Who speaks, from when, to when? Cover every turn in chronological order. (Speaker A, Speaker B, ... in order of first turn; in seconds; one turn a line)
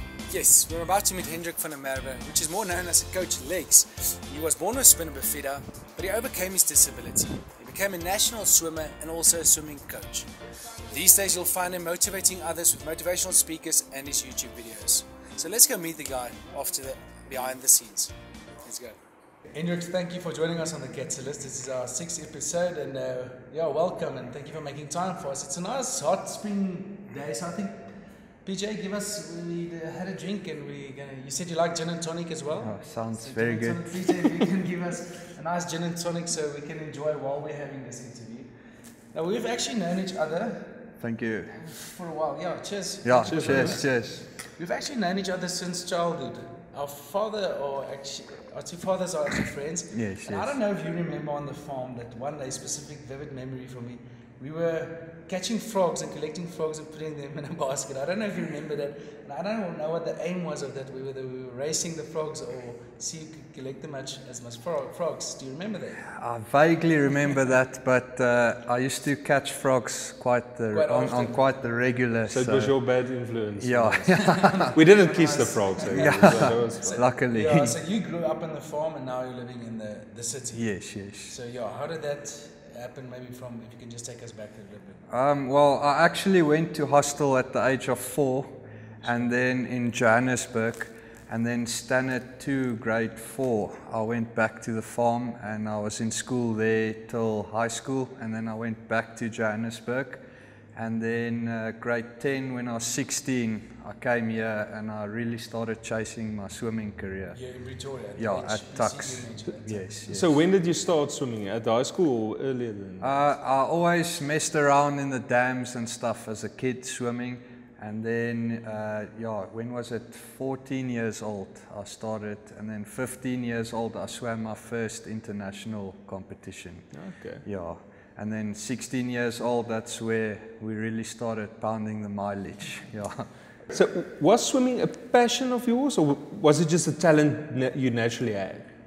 Speaker A: 0.3-10.3
Speaker A: 10.9-19.0
Speaker A: 19.5-27.9
Speaker A: 28.4-38.5
Speaker B: 32.6-34.0
Speaker A: 39.1-40.9
Speaker B: 41.0-41.6
Speaker A: 41.6-66.1
Speaker B: 43.0-44.2
Speaker C: 43.2-43.8
Speaker B: 49.9-50.5
Speaker B: 66.1-72.8
Speaker A: 70.7-71.6
Speaker C: 72.3-77.0
Speaker B: 73.6-74.7
Speaker A: 74.2-85.1
Speaker B: 75.9-77.8
Speaker B: 80.5-81.3
Speaker B: 85.1-100.2
Speaker A: 89.0-89.3
Speaker B: 100.8-107.4
Speaker A: 107.3-110.2
Speaker B: 108.2-110.3
Speaker C: 110.1-113.2
Speaker B: 113.0-133.3
Speaker C: 126.9-127.5
Speaker C: 133.7-138.7